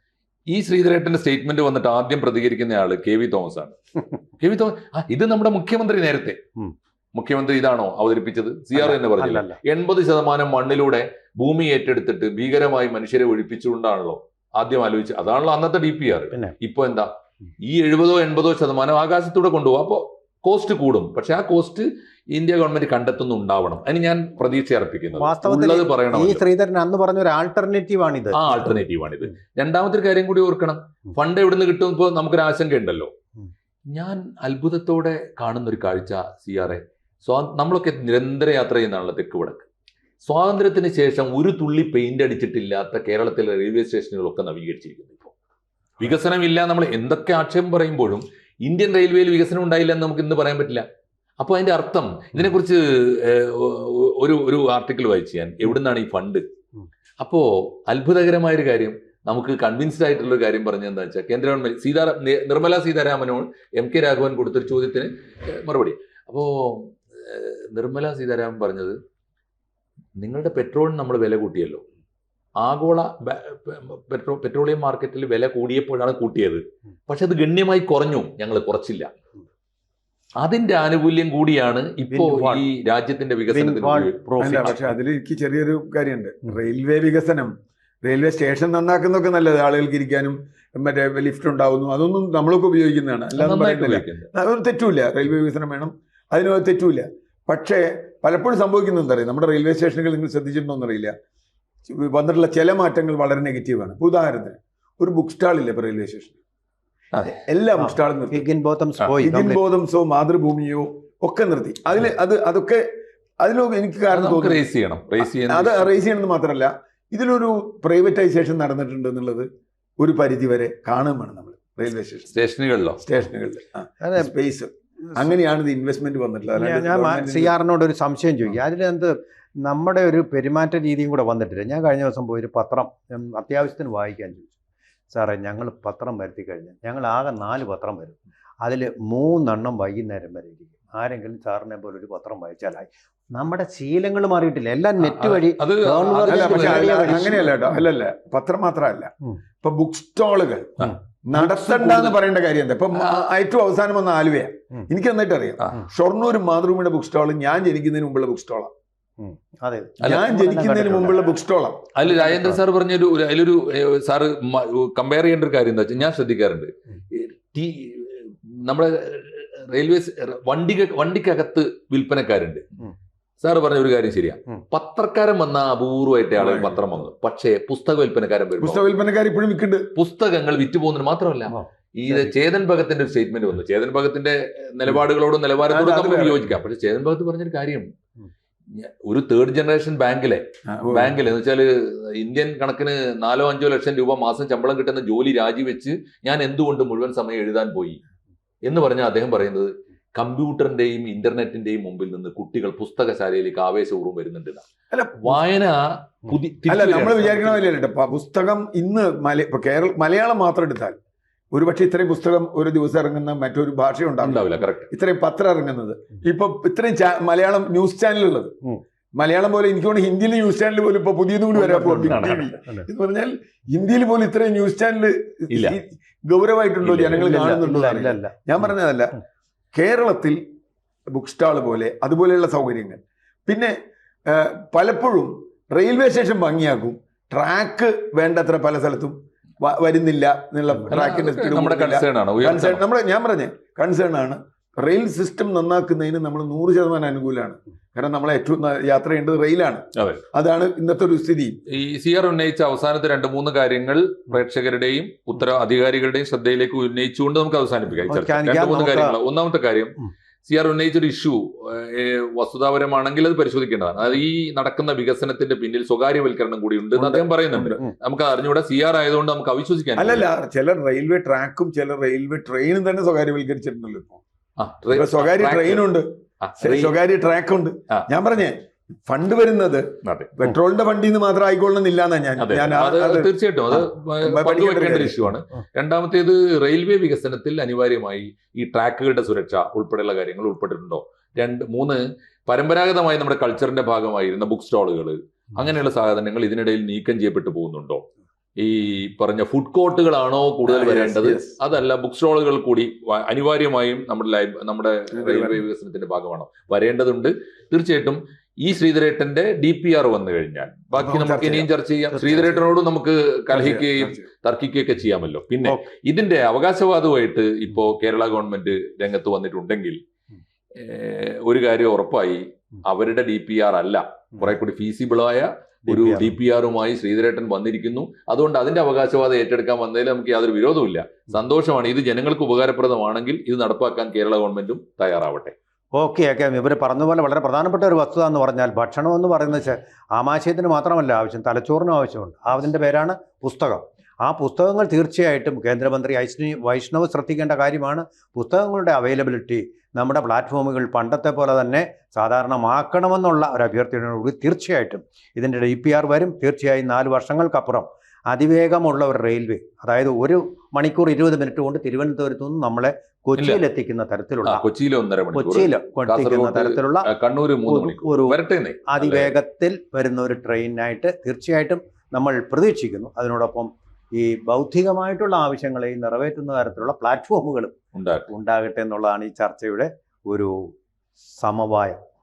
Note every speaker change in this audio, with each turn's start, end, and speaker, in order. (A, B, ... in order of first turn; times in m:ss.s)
0:00.5-0:03.8 A
0:04.4-0:06.4 A
0:07.1-0:17.1 A
0:08.7-0:09.6 B
0:17.6-0:26.4 A
0:25.2-0:28.8 B
0:28.3-0:33.1 A
0:33.9-0:39.7 A
0:40.2-0:45.3 A
0:46.0-0:50.8 A
0:51.4-0:56.4 A
0:57.2-1:09.0 A
1:10.2-1:11.8 A
1:12.6-1:19.1 A
1:20.4-1:24.8 A
1:22.1-1:22.7 B
1:23.5-1:24.8 B
1:24.4-1:27.5 C
1:28.0-1:41.1 C
1:33.3-1:34.3 A
1:41.9-1:46.4 C
1:47.1-1:47.4 A
1:47.5-1:48.4 C
1:47.8-1:49.6 B
1:49.2-1:52.8 C
1:53.4-1:54.6 C
1:54.1-1:55.9 A
1:55.5-1:59.5 C
2:00.0-2:02.3 C
2:02.3-2:03.0 A
2:03.0-2:07.5 C
2:04.0-2:04.3 B
2:06.6-2:14.5 B
2:15.1-2:27.5 B
2:25.0-2:27.5 A
2:26.3-2:38.7 C
2:30.8-2:32.2 A
2:39.2-2:41.2 B
2:40.0-2:41.9 C
2:42.0-2:52.6 A
2:53.4-2:58.9 A
2:56.4-2:57.0 C
2:58.6-2:59.9 C
3:00.0-3:07.9 A
3:05.7-3:06.5 C
3:08.7-3:18.0 A
3:10.7-3:11.2 C
3:18.7-3:24.7 A
3:24.9-3:25.4 C
3:25.2-3:27.7 A
3:26.7-3:31.0 C
3:31.5-3:38.6 C
3:34.2-3:34.9 A
3:39.2-3:49.2 C
3:41.6-3:42.6 A
3:41.7-3:42.8 B
3:45.5-3:45.8 A
3:46.8-3:47.6 A
3:47.1-3:48.4 B
3:49.7-3:50.4 C
3:51.1-3:53.8 C
3:54.3-4:11.6 C
4:00.9-4:02.8 A
4:10.0-4:10.2 A
4:11.7-4:20.0 A
4:18.1-4:19.2 B
4:20.5-4:30.3 A
4:27.0-4:27.7 C
4:30.0-4:34.2 C
4:34.6-4:35.9 A
4:34.9-4:45.2 C
4:36.4-4:37.0 A
4:40.0-4:40.3 A
4:42.4-4:58.0 A
4:58.6-5:20.0 A
5:00.7-5:01.6 C
5:05.2-5:05.6 C
5:11.0-5:11.7 C
5:12.3-5:12.6 B
5:13.5-5:14.2 C
5:15.6-5:15.9 B
5:20.8-5:35.5 A
5:25.9-5:26.4 B
5:36.0-6:04.7 B
6:03.4-6:03.6 A
6:04.4-6:09.4 A
6:05.3-6:07.1 B
6:07.6-6:17.8 B
6:17.9-6:18.3 A
6:18.3-6:20.7 B
6:21.4-6:22.0 B